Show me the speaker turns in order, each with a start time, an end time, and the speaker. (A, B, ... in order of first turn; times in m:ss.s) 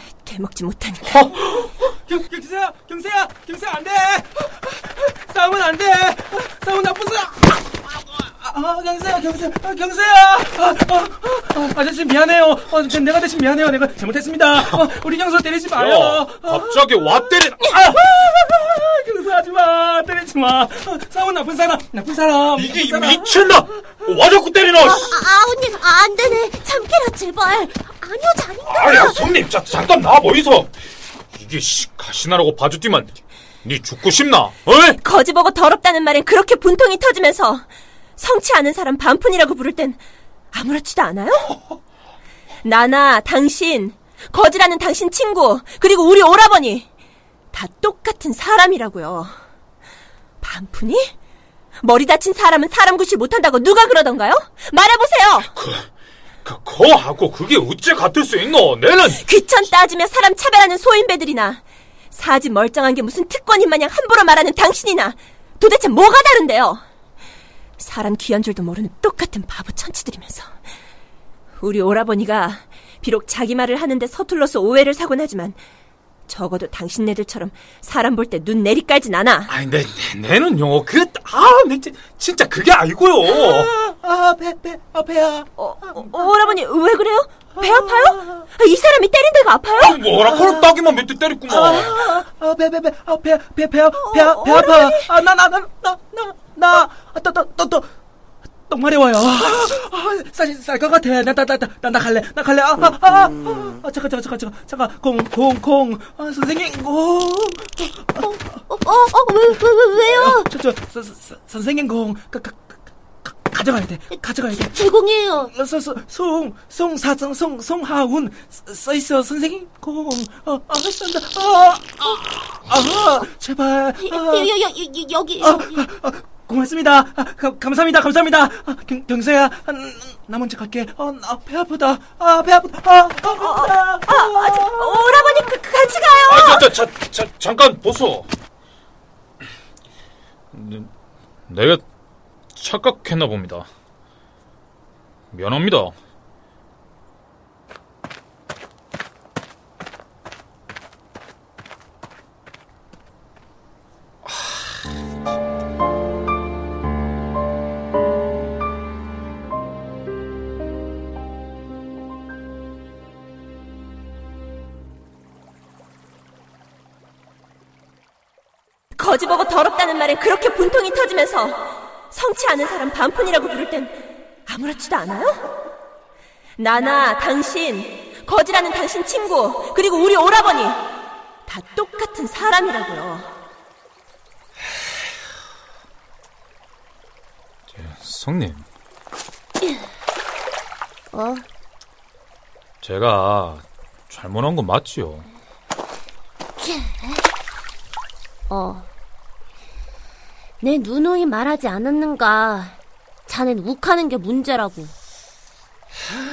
0:00.2-0:01.2 A
0:01.6-0:23.6 B
0:15.7-0:18.0 C
0:22.6-0:25.2 C
0:24.9-0:29.3 D
0:28.6-0:30.7 C
0:31.3-0:35.0 C
0:35.0-0:37.7 A
0:38.2-0:40.0 A
0:40.5-0:41.5 A
0:42.6-0:46.9 A
0:47.5-0:49.4 A
0:50.4-0:51.1 A
0:51.8-0:55.5 A
0:55.5-0:55.9 C
0:56.4-0:59.2 C
0:59.2-1:06.8 A
1:07.8-1:10.6 A
1:11.6-1:15.6 A
1:16.3-1:19.5 A
1:19.5-1:23.7 C
1:23.3-1:25.9 B
1:25.6-1:30.0 A
1:27.6-1:28.4 B
1:29.8-1:32.1 C
1:30.2-1:30.7 B
1:31.5-1:37.9 B
1:34.1-1:35.0 A
1:38.7-1:48.6 B
1:47.8-1:50.5 D
1:50.0-1:54.8 B
1:54.6-1:55.5 D
1:55.5-2:04.5 B
2:04.0-2:05.8 D
2:05.4-2:15.5 B
2:13.4-2:16.6 A
2:16.3-2:18.3 C
2:20.5-2:20.9 C
2:21.5-2:21.8 C
2:22.5-2:23.7 C
2:25.3-2:25.9 C
2:49.0-2:55.4 A
2:56.6-3:00.8 A
3:01.4-3:03.3 A
3:07.7-3:08.6 C
3:11.1-3:11.4 D
3:12.8-3:15.2 C
3:16.6-3:17.2 D
3:18.5-3:18.9 D
3:20.6-3:24.9 D